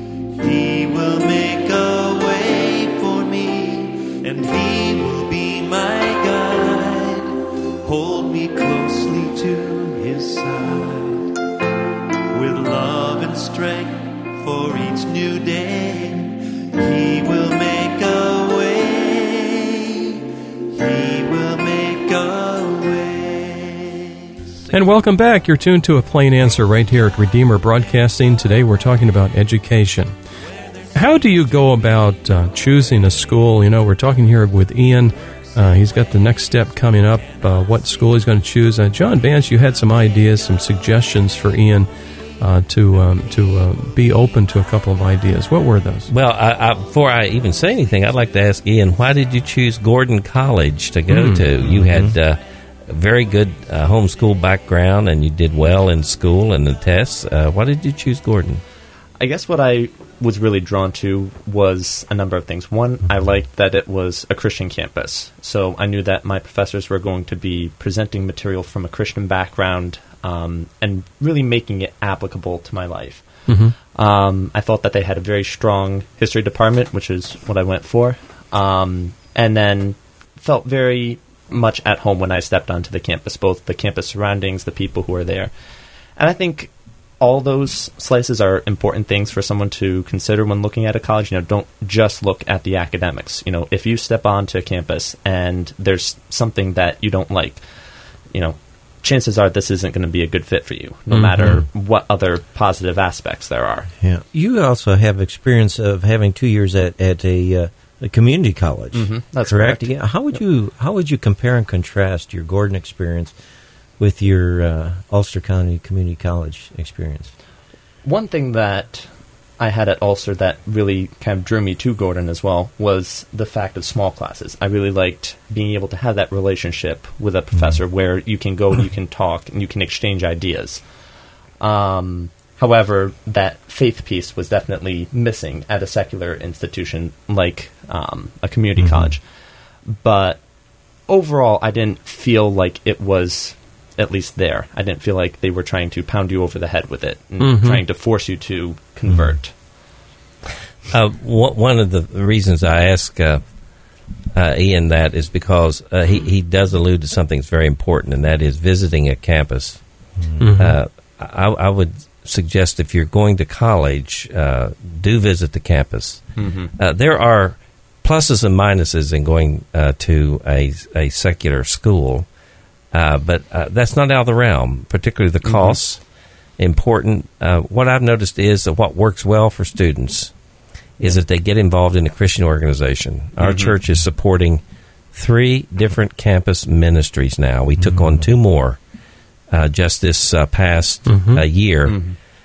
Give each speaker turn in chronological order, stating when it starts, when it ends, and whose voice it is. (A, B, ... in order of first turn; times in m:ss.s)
0:00.3-0:11.3 A
0:12.3-0:20.2 A
0:20.7-0:24.9 A
0:24.7-0:30.1 B
0:30.9-0:41.9 B
0:42.4-0:46.1 B
0:46.1-0:58.6 C
0:51.1-0:51.5 B
0:51.6-0:52.1 D
0:59.2-1:13.3 E
1:13.5-1:13.7 B
1:13.9-1:25.5 E
1:26.2-1:37.6 E
1:38.3-1:43.9 E
1:41.1-1:41.6 B
1:44.0-1:53.3 D
1:48.9-1:49.9 E
1:54.0-1:57.3 D
1:58.0-2:10.8 E
2:11.6-2:19.2 E
2:18.8-2:19.1 D
2:19.9-2:20.4 E
2:21.1-2:29.5 E
2:27.4-2:27.8 B
2:29.1-2:29.4 D
2:30.9-2:33.4 C
2:34.3-2:39.8 C
2:40.2-2:40.5 D
2:40.4-2:40.8 B
2:40.6-2:52.3 C
2:46.4-2:46.7 E
2:52.9-2:56.0 C
2:55.4-2:55.8 E
2:56.6-3:00.3 C
3:01.0-3:04.6 C
3:03.4-3:03.7 E
3:05.1-3:08.8 C
3:07.8-3:08.2 D
3:09.5-3:12.0 C
3:11.0-3:11.4 B
3:11.8-3:12.2 E